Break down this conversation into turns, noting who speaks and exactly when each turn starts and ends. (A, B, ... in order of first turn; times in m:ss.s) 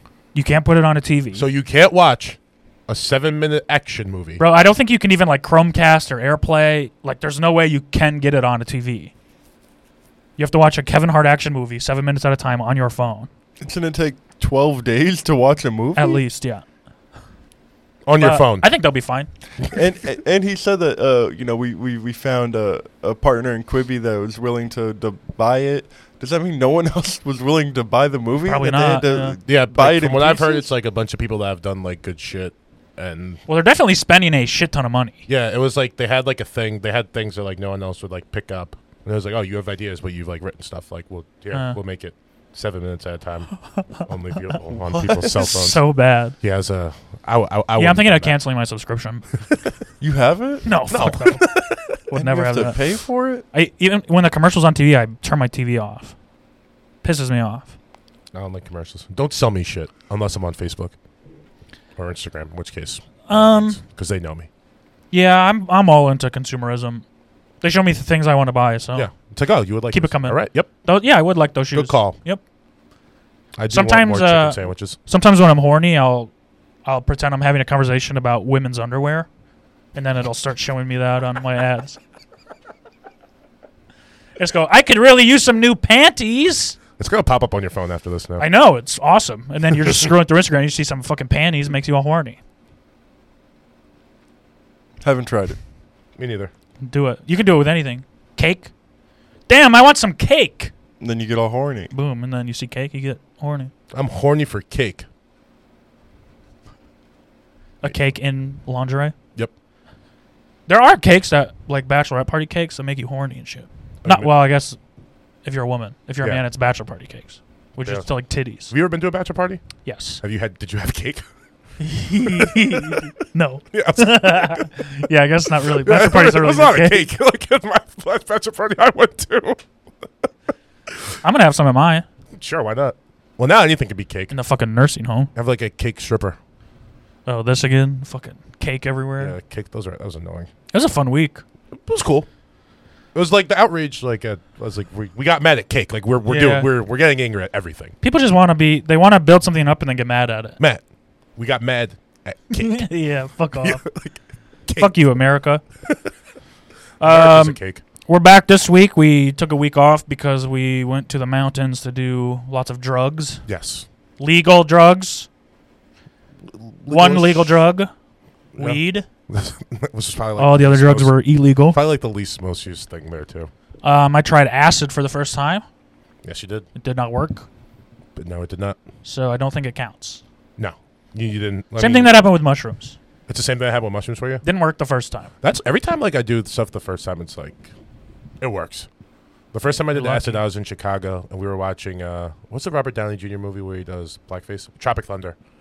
0:00.3-0:01.4 A
0:01.3-0:04.4 B
0:04.4-0:09.1 A
0:10.4-0:13.3 A
0:13.6-0:16.2 C
0:16.0-0:16.6 A
0:18.0-0:18.7 B
0:18.2-0:19.3 A
0:19.7-0:30.7 C
0:28.4-0:29.4 A
0:29.4-0:33.4 B
0:33.5-0:35.2 A
0:35.3-0:45.8 B
0:41.5-0:41.8 A
0:43.7-0:44.0 A
0:44.8-0:45.4 C
0:45.3-0:46.4 A
0:46.4-0:48.4 B
0:47.8-0:49.2 A
0:50.0-0:50.7 C
0:50.6-0:51.4 A
0:50.9-0:51.9 B
0:52.1-0:52.8 A
0:52.1-0:53.4 C
0:53.4-0:56.1 A
0:57.0-0:57.7 A
0:58.3-1:00.9 B
1:02.0-1:04.5 B
1:03.2-1:03.8 A
1:05.1-1:07.0 A
1:07.6-1:09.1 A
1:08.9-1:10.7 B
1:09.9-1:12.4 A
1:11.7-1:12.2 B
1:13.6-1:15.0 B
1:13.7-1:16.3 A
1:16.8-1:19.3 A
1:19.9-1:22.0 A
1:24.4-1:26.8 A
1:27.0-1:28.4 B
1:28.4-1:32.4 A
1:35.0-1:35.6 C
1:36.2-1:36.5 B
1:36.8-1:38.7 A
1:39.5-1:40.7 A
1:41.0-1:41.9 C
1:41.9-1:43.7 A
1:43.9-1:45.0 B
1:47.8-1:49.1 A
1:50.7-1:54.8 A
1:54.0-1:54.3 B
1:55.4-1:58.7 A
1:58.7-1:59.6 B
1:59.8-2:00.2 A
2:00.2-2:01.2 B
2:01.8-2:07.1 A
2:02.3-2:03.0 B
2:03.7-2:04.7 B
2:05.7-2:09.6 B
2:11.2-2:12.0 A
2:12.3-2:14.3 B
2:14.3-2:15.3 A
2:15.3-2:16.4 B
2:17.2-2:19.4 A
2:19.2-2:20.5 B
2:20.7-2:21.4 A
2:21.7-2:22.3 B
2:23.1-2:27.9 B
2:26.2-2:26.7 A
2:28.0-2:30.6 A
2:31.4-2:32.9 B
2:32.5-2:33.8 A
2:33.6-2:34.2 B
2:34.7-2:35.0 B
2:34.8-2:35.6 A
2:37.0-2:37.8 B
2:37.0-2:43.4 A
2:43.5-2:43.9 B
2:44.2-2:45.3 A
2:46.5-2:47.5 B
2:46.9-2:47.9 A
2:48.5-2:53.5 B
2:48.6-2:49.0 A
2:50.4-2:51.8 A
2:53.8-2:55.6 A
2:56.2-2:56.7 B
2:56.8-2:57.4 A
2:58.2-2:58.8 B
2:59.0-3:00.2 A
3:00.6-3:02.2 B
3:01.8-3:03.0 A
3:03.3-3:04.4 B
3:04.4-3:05.3 A
3:05.4-3:07.7 B
3:08.4-3:08.9 B
3:09.5-3:15.4 B
3:09.9-3:10.4 A